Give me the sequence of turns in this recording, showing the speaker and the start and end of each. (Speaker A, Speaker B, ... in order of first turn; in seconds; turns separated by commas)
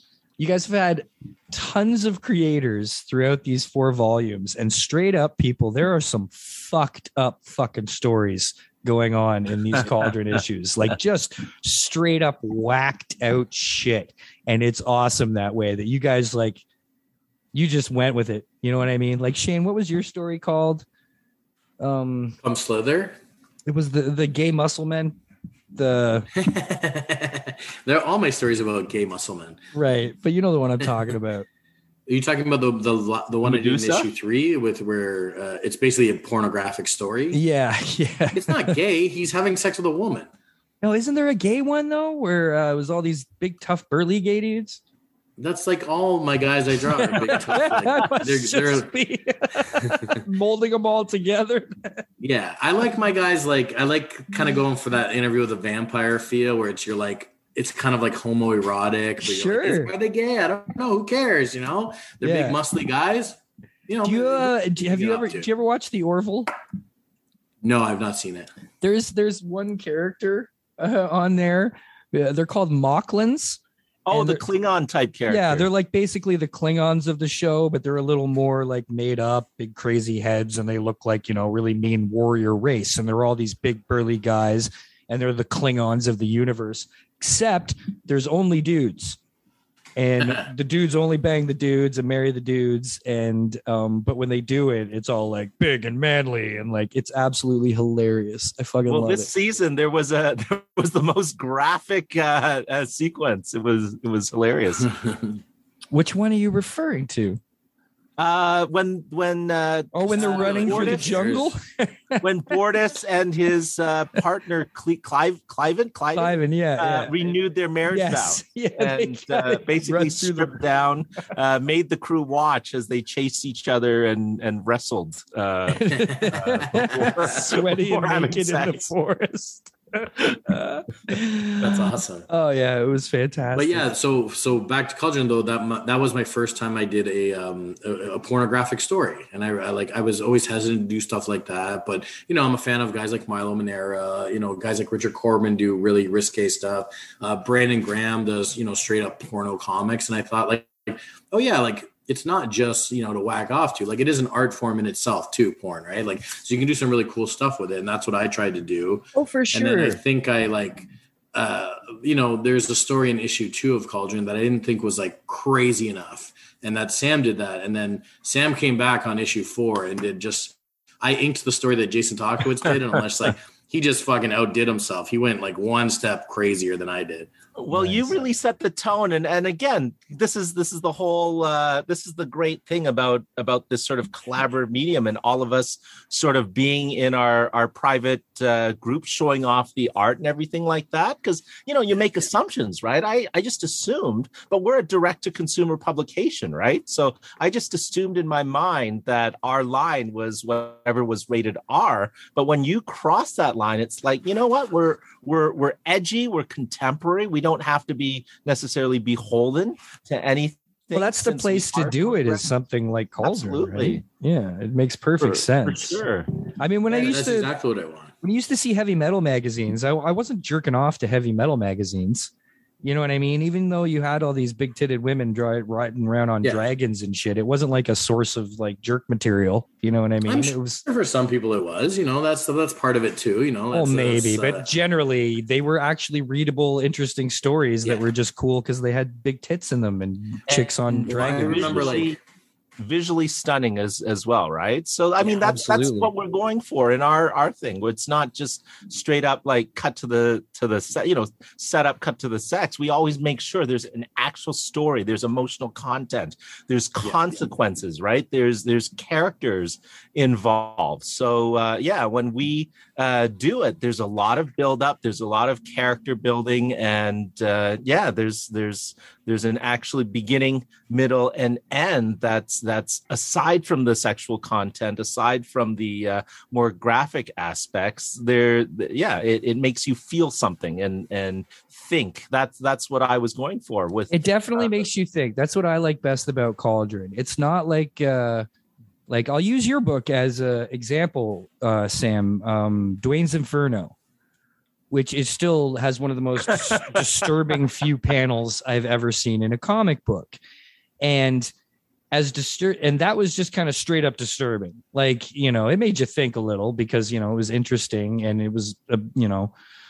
Speaker A: 0.4-16.6, Speaker A: 17.5-20.9, Speaker A: 21.8-22.4, Speaker B: 22.4-23.2, Speaker A: 23.7-25.2, Speaker A: 25.7-26.3, Speaker B: 26.4-29.6, Speaker A: 29.7-31.5, Speaker B: 32.1-37.4, Speaker C: 33.4-34.1, Speaker A: 37.3-38.8, Speaker B: 38.3-40.3, Speaker A: 40.8-44.8, Speaker B: 45.4-48.9, Speaker A: 47.0-52.0, Speaker B: 52.2-65.5, Speaker A: 59.2-59.9, Speaker A: 62.2-62.6, Speaker A: 64.0-66.5, Speaker B: 67.6-68.5, Speaker A: 68.8-73.6, Speaker C: 74.1-75.7, Speaker A: 74.1-74.4, Speaker A: 75.3-89.2, Speaker A: 90.0-99.3, Speaker B: 90.2-90.5, Speaker C: 98.9-104.9, Speaker A: 105.9-107.4, Speaker C: 108.2-111.2, Speaker A: 109.9-112.6, Speaker B: 110.2-111.5, Speaker C: 112.2-128.9, Speaker A: 116.2-117.1, Speaker A: 117.9-120.5, Speaker A: 125.7-131.8, Speaker B: 126.0-127.1, Speaker B: 131.6-132.3, Speaker A: 132.3-133.9, Speaker B: 133.6-178.2, Speaker A: 159.2-160.0, Speaker C: 177.6-212.5, Speaker A: 210.9-216.0, Speaker C: 213.2-214.0, Speaker C: 215.2-216.3, Speaker A: 216.6-217.5, Speaker B: 216.9-218.1, Speaker A: 218.2-222.3, Speaker A: 222.8-230.8, Speaker B: 226.4-226.7, Speaker B: 230.3-234.7, Speaker A: 233.7-242.0, Speaker C: 240.9-242.2, Speaker B: 241.2-242.2, Speaker C: 242.8-284.9, Speaker A: 245.2-246.1, Speaker A: 284.1-288.5, Speaker A: 289.1-293.9, Speaker A: 294.9-300.4, Speaker A: 301.0-301.5, Speaker A: 302.1-309.5